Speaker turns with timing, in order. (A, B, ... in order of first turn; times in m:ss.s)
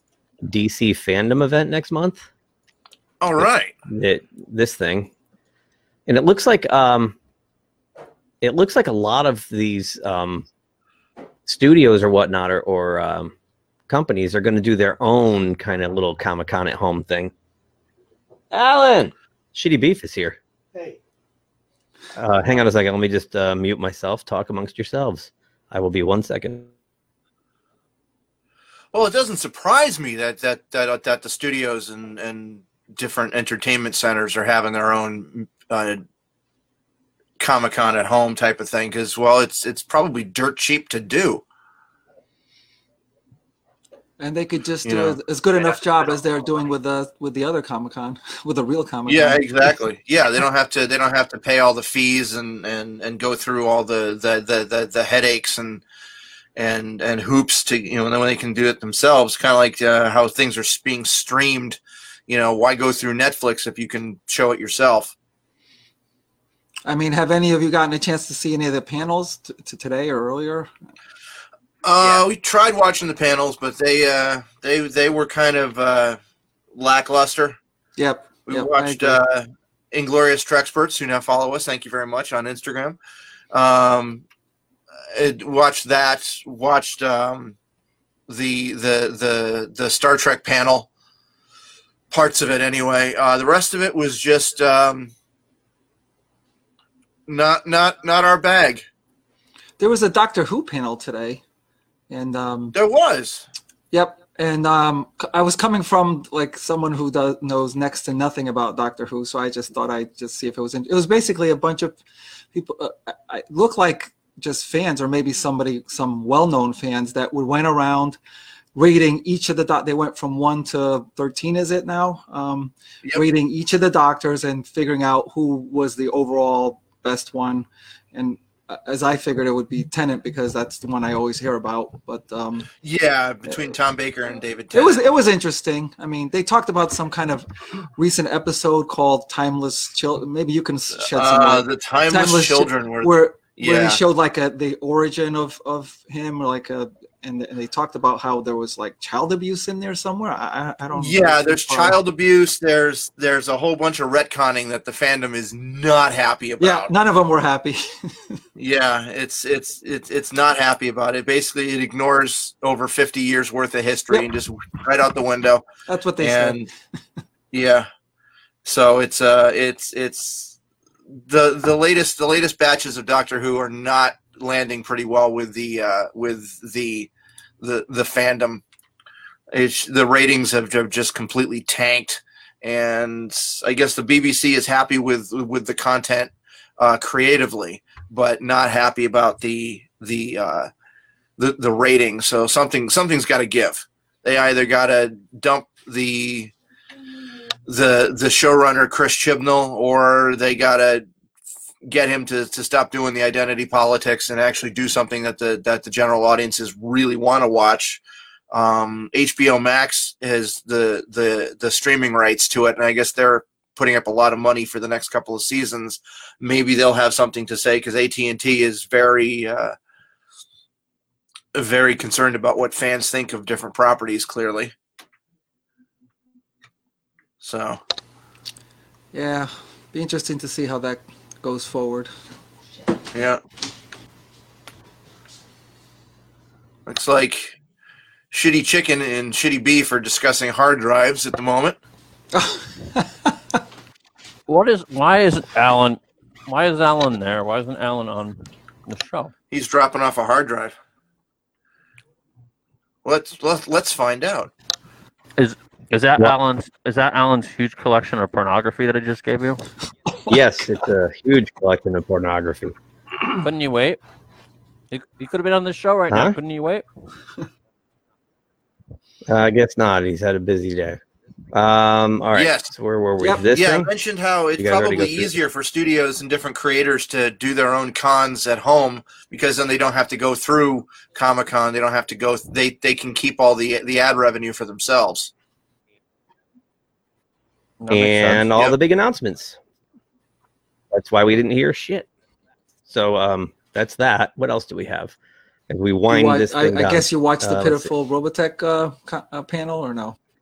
0:00.4-0:02.3 A
0:03.2-0:03.7 B
0:03.4-0:05.1 A
0:06.1-0:07.2 A
0:08.4-0:10.5 A
0:11.5-0:13.4 A
0:13.9-0:17.3 A
0:18.5-0:20.4 A
0:22.2-0:26.7 A
0:28.9-0:36.0 B
0:37.4-0:41.4 B
0:44.2-0:49.8 C
0:44.8-0:45.8 B
0:49.1-0:55.8 B
0:56.6-1:05.1 B
1:06.9-1:10.7 C
1:11.8-1:16.2 B
1:16.7-1:17.6 B
1:18.0-1:19.2 C
1:18.5-1:23.0 B
1:23.5-1:24.2 B
1:25.1-1:27.6 B
1:28.3-1:30.9 B
1:32.1-1:35.1 B
1:37.3-1:38.9 B
1:39.8-1:41.4 C
1:42.1-1:42.8 C
1:42.7-1:43.5 B
1:43.9-1:52.0 C
1:52.5-1:58.2 C
1:58.8-2:12.7 C
2:12.8-2:15.1 B
2:14.7-2:17.5 C
2:18.0-2:32.0 C
2:21.1-2:24.0 B
2:30.9-2:36.9 B
2:36.6-2:37.8 C
2:38.6-2:45.7 B
2:45.9-2:46.7 C
2:46.2-2:46.7 B
2:47.5-2:47.9 B
2:48.6-2:50.6 B
2:51.2-2:58.6 B
2:59.5-3:10.7 B
3:11.4-3:16.5 B
3:17.7-3:21.1 B
3:21.8-3:28.0 B
3:28.5-3:39.8 B
3:41.5-3:44.7 B
3:47.4-3:47.8 B
3:49.1-3:52.1 C
3:53.1-3:53.4 B
3:56.9-3:57.6 B
3:58.3-4:01.8 B
4:02.3-4:03.3 C
4:04.5-4:09.3 D
4:09.5-4:10.7 B
4:13.0-4:14.5 B
4:15.4-4:19.7 D
4:20.3-4:22.8 A
4:23.3-4:24.0 D
4:24.9-4:26.8 D
4:26.1-4:26.4 A
4:29.3-4:31.0 A
4:31.5-4:33.9 A
4:32.4-4:32.7 B
4:33.2-4:33.4 C
4:33.4-4:45.3 B
4:34.6-4:35.3 A
4:47.8-4:48.5 D
4:47.9-4:49.6 A
4:50.9-4:52.1 A
4:52.9-4:55.2 A
4:55.7-4:57.9 A
4:56.1-5:00.2 C